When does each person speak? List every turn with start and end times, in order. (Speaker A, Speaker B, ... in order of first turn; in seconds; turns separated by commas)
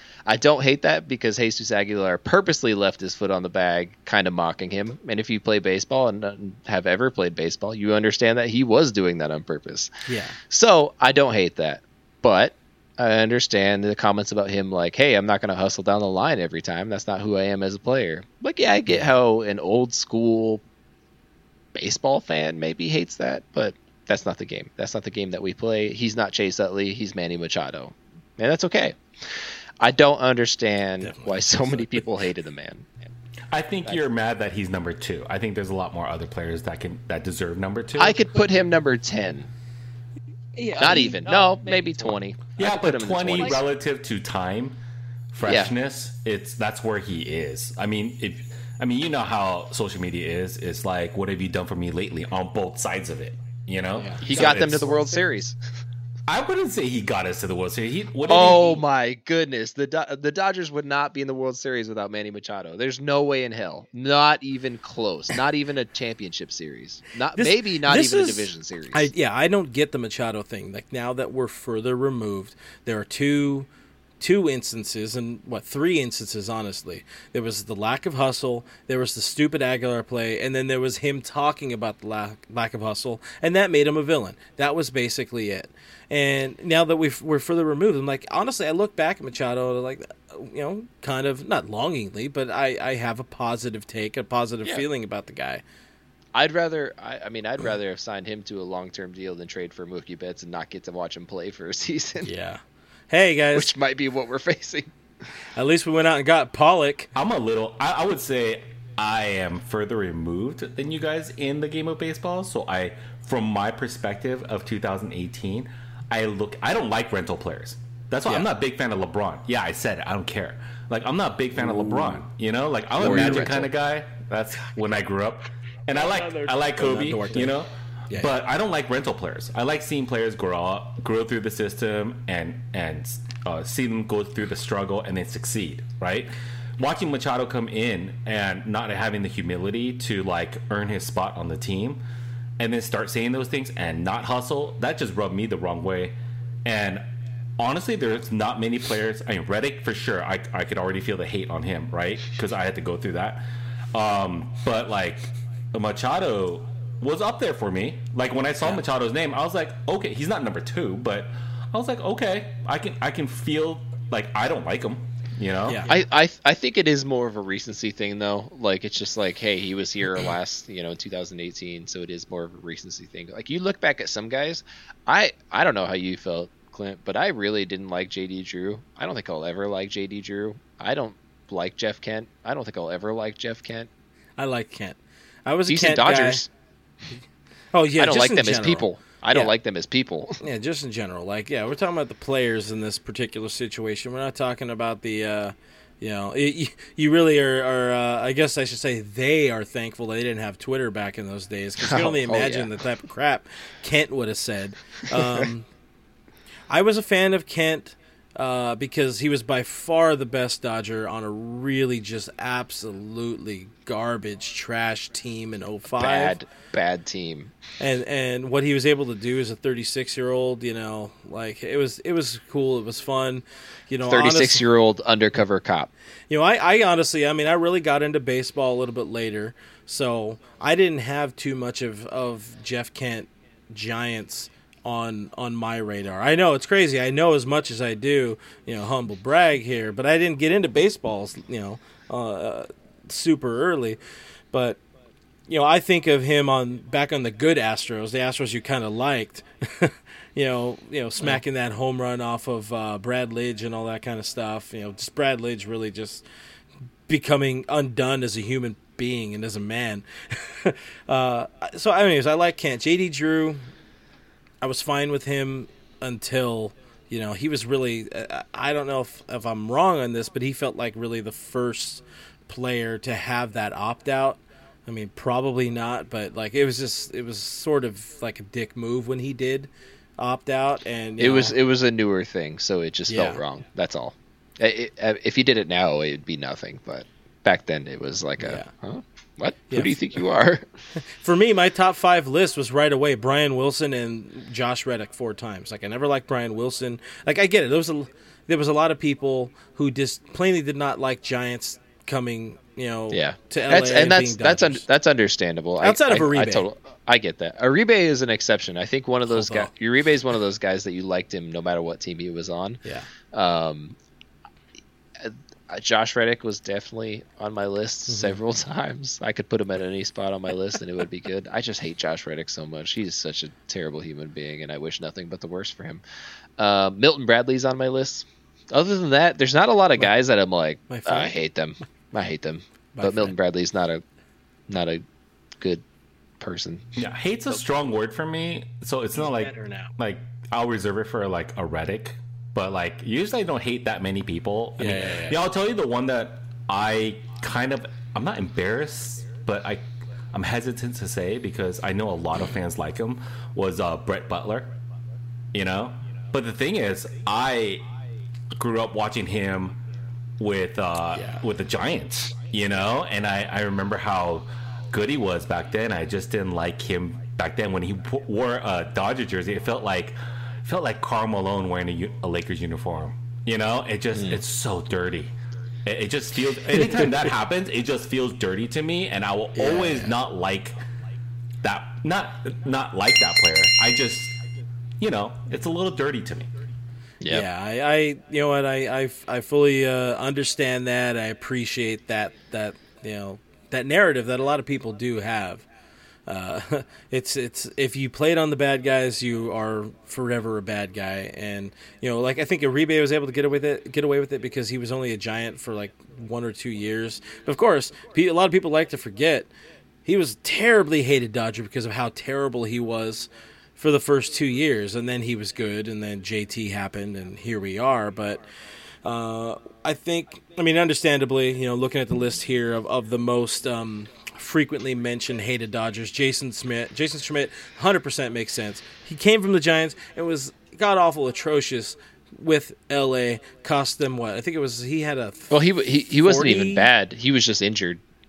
Speaker A: 0.3-9.9, Speaker B: 10.1-10.4, Speaker A: 10.5-20.6, Speaker A: 21.7-33.1, Speaker B: 31.0-32.0, Speaker C: 33.5-38.2, Speaker A: 38.0-39.5, Speaker B: 40.6-41.9, Speaker A: 40.7-43.6, Speaker C: 42.6-44.8, Speaker C: 45.3-55.0, Speaker A: 45.4-45.7, Speaker B: 53.9-54.5, Speaker A: 54.2-55.6, Speaker C: 56.3-58.8, Speaker A: 58.2-69.1, Speaker B: 67.3-73.7, Speaker B: 74.2-95.6, Speaker A: 96.3-102.3, Speaker B: 102.2-103.7, Speaker A: 103.5-104.9, Speaker B: 105.5-107.1, Speaker C: 107.2-142.0, Speaker A: 121.7-122.2, Speaker A: 123.0-123.7, Speaker B: 125.9-127.6, Speaker C: 142.6-147.1, Speaker C: 147.6-165.9, Speaker B: 165.7-166.0, Speaker A: 165.9-183.9, Speaker B: 184.4-186.4, Speaker A: 185.7-186.5, Speaker B: 187.7-189.5, Speaker A: 188.0-190.4, Speaker B: 190.4-205.7, Speaker A: 201.8-202.8, Speaker B: 206.7-216.4, Speaker A: 215.9-217.5, Speaker B: 217.8-224.7, Speaker A: 224.1-225.9, Speaker B: 226.3-244.0, Speaker B: 244.5-244.8, Speaker B: 245.5-256.2, Speaker B: 257.1-263.6, Speaker B: 264.6-281.6, Speaker A: 281.2-290.7, Speaker B: 283.1-283.4, Speaker B: 288.4-288.7, Speaker B: 289.7-290.0, Speaker B: 291.2-304.8, Speaker A: 303.1-314.0, Speaker B: 305.8-306.7, Speaker B: 309.3-309.7, Speaker B: 312.8-313.1, Speaker A: 315.2-326.0, Speaker B: 318.1-318.4, Speaker A: 326.6-334.0, Speaker B: 330.9-331.4, Speaker B: 332.9-333.4, Speaker A: 334.7-335.0, Speaker A: 335.6-335.8, Speaker A: 336.4-336.9, Speaker C: 337.0-354.7, Speaker B: 339.2-339.9, Speaker B: 344.8-345.4, Speaker C: 355.5-357.9, Speaker C: 358.5-359.8, Speaker C: 360.4-375.3, Speaker B: 361.1-361.4, Speaker A: 374.1-374.4, Speaker C: 375.9-380.8, Speaker B: 376.7-377.3, Speaker B: 379.6-380.1, Speaker C: 381.6-384.4, Speaker C: 385.0-386.5, Speaker A: 387.2-387.5, Speaker B: 387.3-395.6, Speaker B: 396.3-409.5, Speaker B: 410.1-418.4, Speaker B: 419.0-436.9, Speaker A: 435.5-438.0